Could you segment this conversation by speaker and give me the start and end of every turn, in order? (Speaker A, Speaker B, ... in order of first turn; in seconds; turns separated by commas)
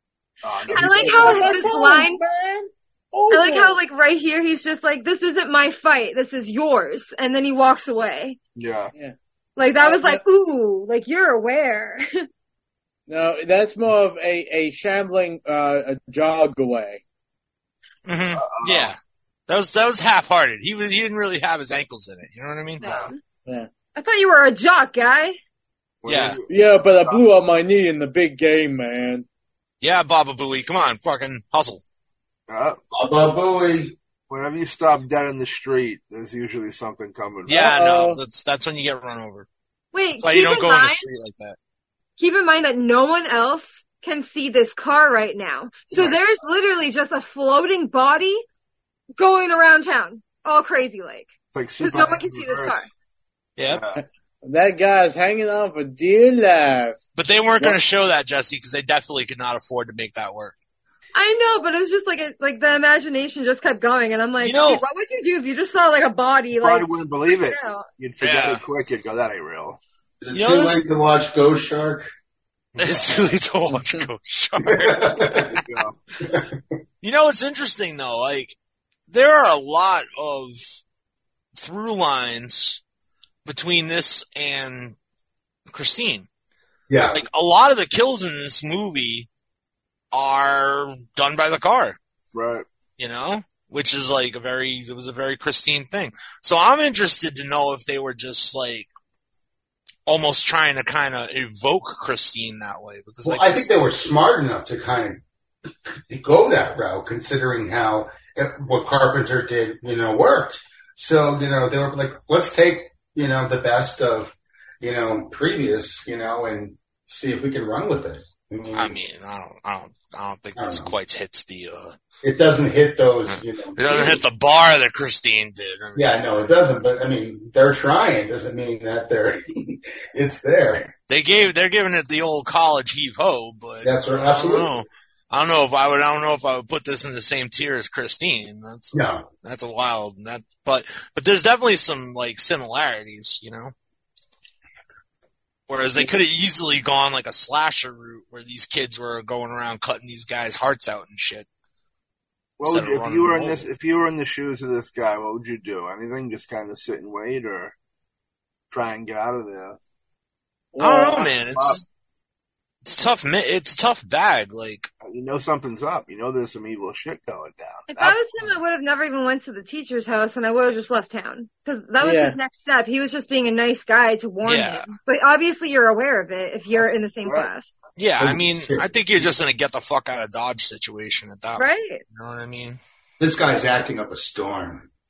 Speaker A: 0.4-1.8, Speaker B: 0.7-2.2, Speaker C: 0.7-3.8, Speaker B: 3.3-8.4, Speaker A: 8.6-8.9, Speaker B: 9.6-12.0, Speaker C: 9.8-10.2, Speaker C: 13.1-17.0, Speaker D: 18.1-19.0, Speaker A: 18.4-18.9, Speaker D: 19.5-22.9, Speaker B: 22.8-23.2, Speaker A: 22.8-23.1, Speaker B: 23.9-25.4, Speaker A: 26.0-27.2, Speaker D: 26.1-26.4, Speaker C: 26.5-29.2, Speaker D: 29.8-31.8, Speaker A: 32.5-32.8, Speaker E: 32.9-34.0, Speaker A: 34.3-37.7, Speaker D: 37.5-39.5, Speaker C: 37.5-38.2, Speaker B: 39.9-41.0, Speaker D: 40.2-41.6, Speaker B: 42.2-48.4, Speaker B: 49.2-52.9, Speaker A: 51.5-52.8, Speaker D: 53.6-53.8, Speaker A: 53.7-54.0, Speaker C: 54.0-57.0, Speaker D: 57.1-60.5, Speaker B: 61.1-67.9, Speaker D: 64.4-64.8, Speaker A: 66.5-69.8, Speaker D: 68.2-68.6, Speaker E: 70.2-72.1, Speaker D: 70.3-70.8, Speaker A: 72.7-73.2, Speaker D: 72.8-75.2, Speaker E: 74.6-75.6, Speaker A: 75.5-76.0, Speaker E: 76.2-76.6, Speaker D: 77.0-78.6, Speaker D: 79.1-80.6, Speaker D: 81.5-82.8, Speaker D: 83.4-85.0, Speaker D: 85.7-86.3, Speaker E: 86.9-87.3, Speaker D: 87.1-89.3, Speaker D: 90.1-92.0, Speaker A: 92.3-92.6, Speaker D: 93.0-98.9, Speaker D: 100.1-103.7, Speaker E: 103.2-105.2, Speaker E: 106.1-118.9, Speaker D: 118.7-122.0, Speaker E: 120.5-120.9, Speaker E: 122.2-124.2, Speaker D: 123.3-126.1, Speaker E: 126.0-130.9, Speaker D: 131.1-143.7, Speaker E: 133.8-134.7, Speaker E: 138.9-139.2, Speaker D: 145.7-151.4, Speaker A: 152.6-157.7, Speaker D: 152.6-153.7, Speaker A: 158.7-159.8, Speaker C: 160.7-161.3, Speaker D: 160.8-161.8, Speaker A: 161.5-161.8, Speaker D: 162.8-164.9, Speaker A: 165.0-168.2, Speaker B: 167.9-177.8, Speaker C: 172.0-172.4, Speaker D: 174.4-174.9, Speaker D: 178.0-182.8, Speaker E: 178.2-179.2, Speaker B: 181.6-182.0, Speaker E: 183.2-184.9